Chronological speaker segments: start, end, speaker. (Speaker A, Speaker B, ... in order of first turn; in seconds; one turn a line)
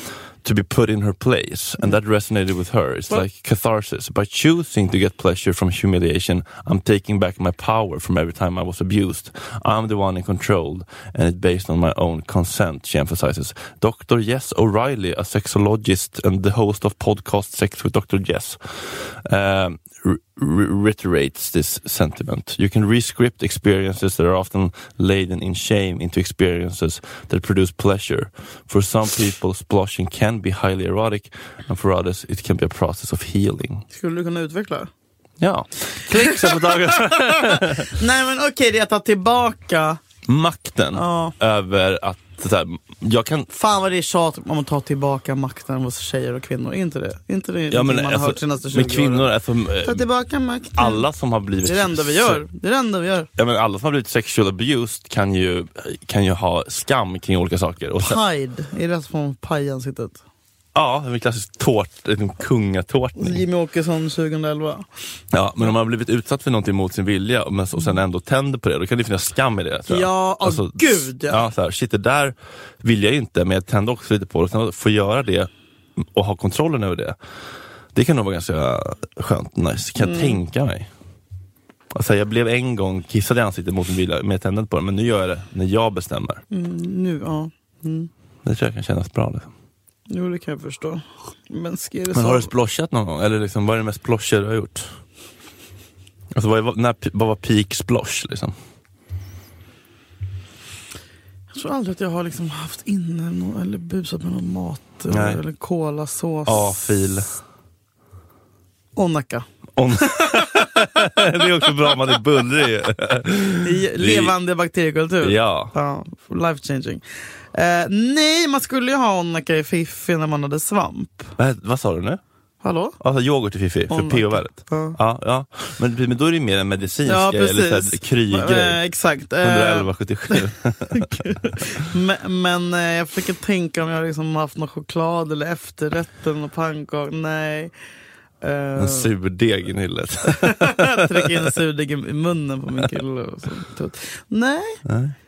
Speaker A: 0.4-33.9
Speaker B: 33.9-34.9
Speaker A: 35.4-38.0
Speaker B: 36.1-40.0
Speaker A: 40.2-43.5
Speaker B: 40.9-41.3
Speaker B: 43.5-49.3
Speaker A: 47.7-50.0
Speaker B: 49.8-51.0
Speaker A: 50.7-52.4
Speaker B: 51.6-53.3
Speaker A: 53.4-58.2
Speaker B: 58.0-60.2
Speaker A: 60.7-63.4
Speaker B: 63.2-64.8
Speaker A: 65.3-77.2
Speaker B: 69.9-71.4
Speaker A: 77.9-80.9
Speaker B: 80.0-80.4
Speaker A: 81.9-86.4
Speaker B: 86.5-88.1
Speaker A: 88.4-89.5
Speaker B: 90.1-92.5
Speaker A: 92.1-94.9
Speaker A: 96.3-98.5
Speaker B: 101.5-106.8
Speaker A: 105.1-105.4
Speaker A: 106.5-107.3
Speaker B: 108.9-109.5
Speaker A: 109.8-114.3
Speaker B: 110.0-111.4
Speaker B: 113.6-117.0
Speaker A: 115.2-115.7
Speaker B: 117.5-121.3
Speaker A: 121.4-122.2
Speaker B: 122.6-123.0
Speaker A: 123.0-128.8
Speaker B: 123.9-125.0
Speaker B: 127.0-137.7
Speaker A: 129.4-131.3
Speaker B: 138.4-139.1
Speaker A: 138.8-141.5
Speaker B: 140.3-144.8
Speaker A: 144.8-145.2